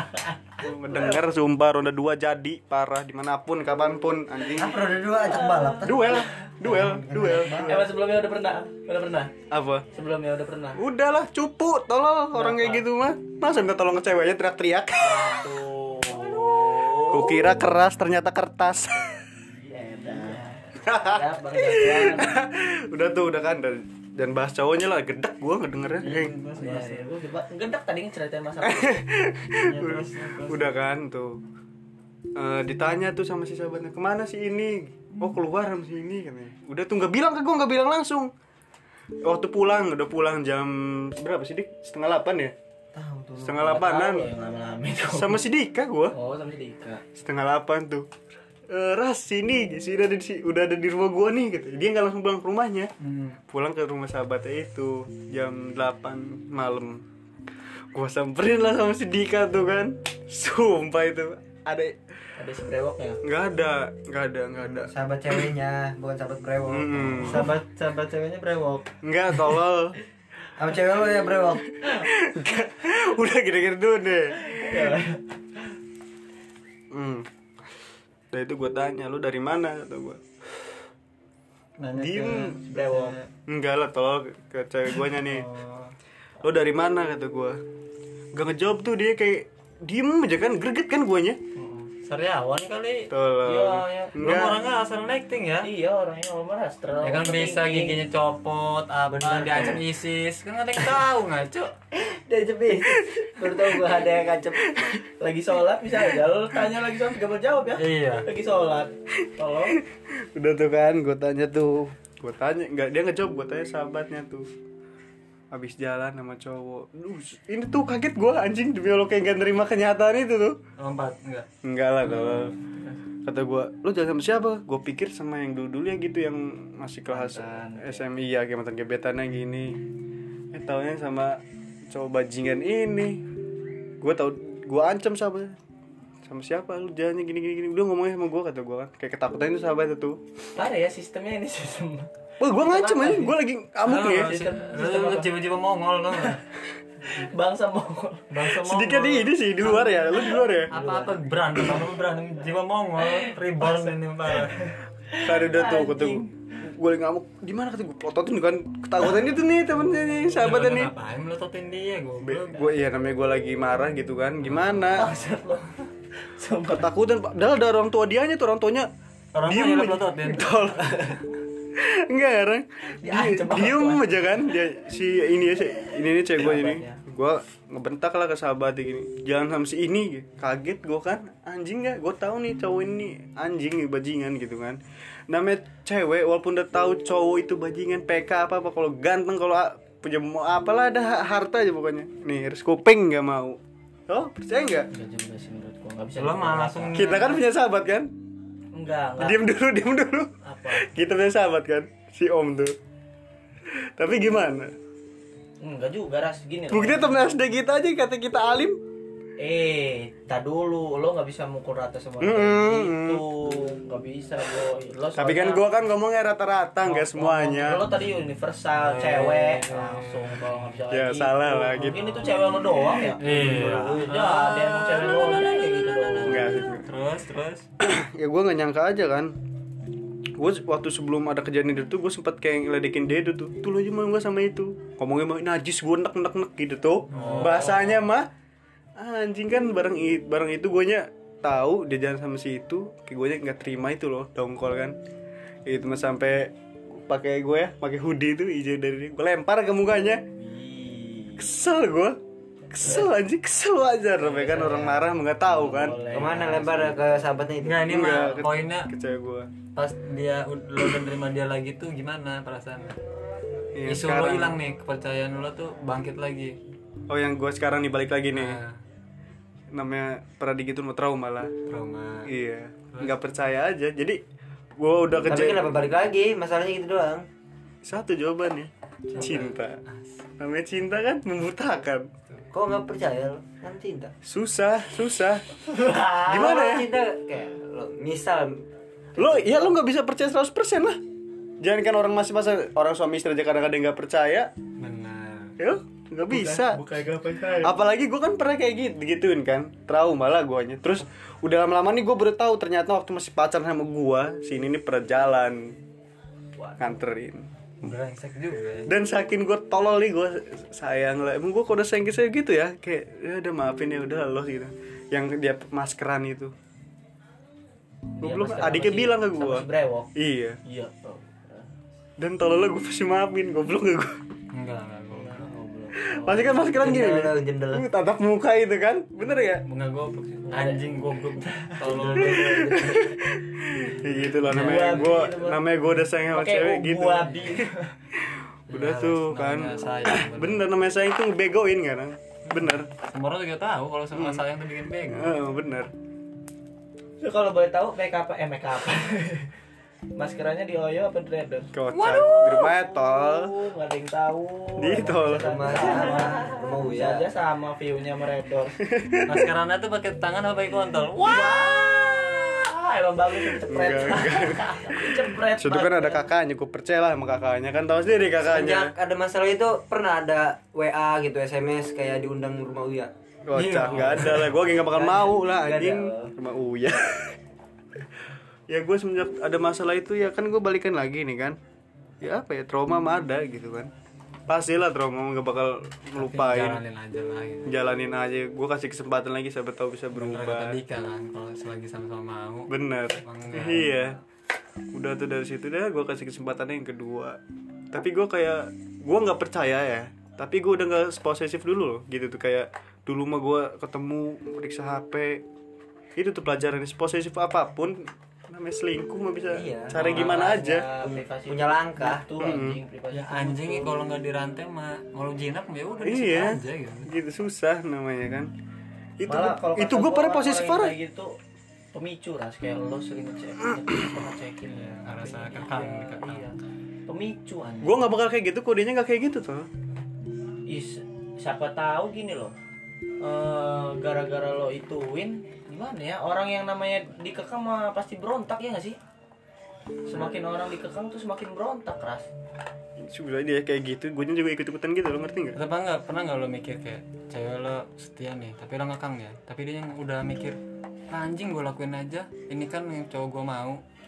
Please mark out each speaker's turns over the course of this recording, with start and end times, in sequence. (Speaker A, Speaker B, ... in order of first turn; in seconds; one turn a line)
Speaker A: 0.6-4.8
Speaker B: 4.5-7.8
Speaker C: 5.2-6.5
Speaker A: 5.8-7.9
Speaker C: 7.5-9.3
Speaker A: 9.5-9.8
Speaker C: 9.9-10.8
Speaker A: 10.8-15.5
Speaker C: 12.3-12.8
Speaker C: 15.0-17.7
Speaker A: 16.9-19.2
Speaker C: 19.7-22.4
Speaker A: 20.8-26.3
Speaker D: 26.0-27.1
Speaker C: 26.6-29.0
Speaker A: 28.6-31.4
Speaker D: 29.6-30.7
Speaker A: 32.3-38.3
Speaker A: 39.2-42.5
Speaker B: 42.9-43.6
Speaker A: 43.4-44.3
Speaker C: 43.5-45.4
Speaker A: 45.1-46.1
Speaker C: 46.1-47.0
Speaker A: 47.1-48.1
Speaker A: 48.7-52.9
Speaker D: 53.0-53.4
Speaker A: 53.5-57.0
Speaker A: 57.9-62.0
Speaker C: 62.4-63.2
Speaker A: 63.2-64.9
Speaker B: 64.8-67.5
Speaker A: 66.7-67.5
Speaker D: 67.2-68.8
Speaker A: 69.0-70.0
Speaker B: 70.6-71.6
Speaker A: 71.8-75.0
Speaker C: 74.5-75.6
Speaker A: 76.9-77.3
Speaker A: 78.3-80.2
Speaker D: 81.8-83.3
Speaker A: 81.9-82.6
Speaker C: 82.6-83.2
Speaker A: 83.5-85.5
Speaker D: 85.1-85.9
Speaker A: 86.4-87.6
Speaker A: 88.3-91.4
Speaker C: 91.5-91.9
Speaker D: 92.0-93.1
Speaker A: 93.1-94.6
Speaker C: 93.4-94.2
Speaker D: 94.2-95.7
Speaker C: 95.6-98.0
Speaker D: 97.0-101.7
Speaker C: 99.2-99.8
Speaker C: 102.0-109.8
Speaker A: 103.0-103.7
Speaker D: 107.8-108.3
Speaker A: 110.3-114.5
Speaker A: 115.5-120.6
Speaker D: 120.8-121.5
Speaker A: 121.6-122.5
Speaker C: 122.1-123.0
Speaker A: 123.2-129.8
Speaker C: 127.1-128.1
Speaker A: 130.5-133.2
Speaker A: 134.0-135.5
Speaker A: 136.2-140.2
Speaker C: 140.5-143.3
Speaker A: 142.4-144.4
Speaker D: 143.8-146.4
Speaker C: 144.1-145.3
Speaker C: 147.0-148.4
Speaker D: 148.3-149.3
Speaker A: 148.6-150.7
Speaker C: 149.6-151.2
Speaker D: 150.7-154.7
Speaker C: 153.0-156.4
Speaker A: 155.2-160.9
Speaker D: 160.3-162.8
Speaker A: 162.2-165.1
Speaker D: 164.4-165.1
Speaker C: 164.9-166.9
Speaker A: 166.7-168.9
Speaker D: 169.3-170.7
Speaker A: 169.5-171.2
Speaker A: 171.7-194.9
Speaker C: 173.0-174.4
Speaker C: 176.3-177.0
Speaker C: 194.9-197.2
Speaker D: 196.2-197.4
Speaker A: 196.9-198.1
Speaker C: 198.7-199.4
Speaker A: 199.2-202.7
Speaker C: 200.4-200.9
Speaker A: 203.7-204.7
Speaker C: 205.6-207.1
Speaker A: 206.7-208.8
Speaker C: 209.4-215.7
Speaker A: 212.2-213.2
Speaker A: 215.1-217.8
Speaker C: 216.8-226.6
Speaker D: 218.8-220.5
Speaker A: 220.9-222.0
Speaker D: 223.2-225.3
Speaker A: 226.2-226.8
Speaker D: 226.7-227.7
Speaker A: 227.8-229.3
Speaker A: 230.4-238.3
Speaker D: 237.1-237.9
Speaker C: 237.1-238.0
Speaker A: 239.0-245.0
Speaker A: 245.7-250.2
Speaker C: 250.4-251.5
Speaker A: 251.4-252.2
Speaker A: 252.7-256.0
Speaker C: 252.8-253.1
Speaker C: 254.2-257.2
Speaker B: 256.1-257.9
Speaker D: 257.6-258.9
Speaker A: 257.9-259.5
Speaker D: 259.7-262.9
Speaker A: 263.8-264.5
Speaker D: 263.9-266.5
Speaker A: 267.1-268.6
Speaker D: 268.3-268.7
Speaker A: 269.7-271.5
Speaker D: 271.7-272.3
Speaker A: 272.2-274.2
Speaker A: 274.8-275.7
Speaker B: 275.2-277.2
Speaker A: 277.8-279.8
Speaker D: 279.2-280.1
Speaker A: 280.4-282.1
Speaker B: 282.5-284.1
Speaker A: 284.2-285.5
Speaker B: 285.8-288.6
Speaker A: 286.1-286.9
Speaker A: 289.2-291.0
Speaker B: 289.2-289.6
Speaker A: 291.6-294.5
Speaker D: 294.8-295.5
Speaker A: 295.6-296.8
Speaker C: 296.3-297.8
Speaker A: 297.6-305.8
Speaker C: 306.6-306.9
Speaker A: 306.8-307.5
Speaker D: 307.8-308.9
Speaker A: 308.9-316.5
Speaker C: 318.2-320.1
Speaker A: 318.2-320.6
Speaker C: 320.6-321.7
Speaker A: 322.2-324.2
Speaker D: 324.5-325.4
Speaker C: 325.1-327.0
Speaker A: 326.2-329.6
Speaker B: 326.7-327.9
Speaker D: 329.6-332.9
Speaker C: 330.5-333.2
Speaker A: 332.1-342.9
Speaker D: 334.4-335.1
Speaker C: 334.4-335.6
Speaker C: 336.3-337.9
Speaker D: 338.7-340.6
Speaker D: 342.5-345.3
Speaker A: 344.1-344.4
Speaker A: 345.1-345.9
Speaker C: 347.2-349.5
Speaker C: 350.1-351.7
Speaker A: 351.7-353.5
Speaker D: 351.9-352.7
Speaker C: 352.2-358.8
Speaker A: 354.8-356.1
Speaker B: 355.4-357.2
Speaker A: 358.9-359.5
Speaker D: 359.2-361.8
Speaker C: 361.1-366.3
Speaker A: 363.5-368.9
Speaker B: 368.4-373.1
Speaker A: 373.5-377.4
Speaker D: 373.5-374.6
Speaker C: 374.8-376.3
Speaker A: 378.7-381.6
Speaker A: 382.2-383.9
Speaker A: 384.5-386.8
Speaker D: 386.1-387.7
Speaker A: 387.7-390.8
Speaker D: 390.1-394.1
Speaker A: 392.7-394.2
Speaker A: 394.9-397.4
Speaker A: 397.9-405.4
Speaker A: 406.1-410.9
Speaker B: 409.5-410.0
Speaker C: 409.9-413.9
Speaker B: 411.0-412.2
Speaker A: 412.4-412.8
Speaker D: 413.1-417.1
Speaker A: 416.0-418.5
Speaker A: 419.2-420.9
Speaker C: 419.3-421.4
Speaker C: 421.9-426.6
Speaker D: 424.7-426.4
Speaker C: 427.1-428.0
Speaker A: 427.8-429.7
Speaker C: 430.7-432.6
Speaker C: 433.2-439.0
Speaker C: 440.1-442.3
Speaker A: 443.0-445.6
Speaker D: 445.5-450.6
Speaker D: 451.1-453.8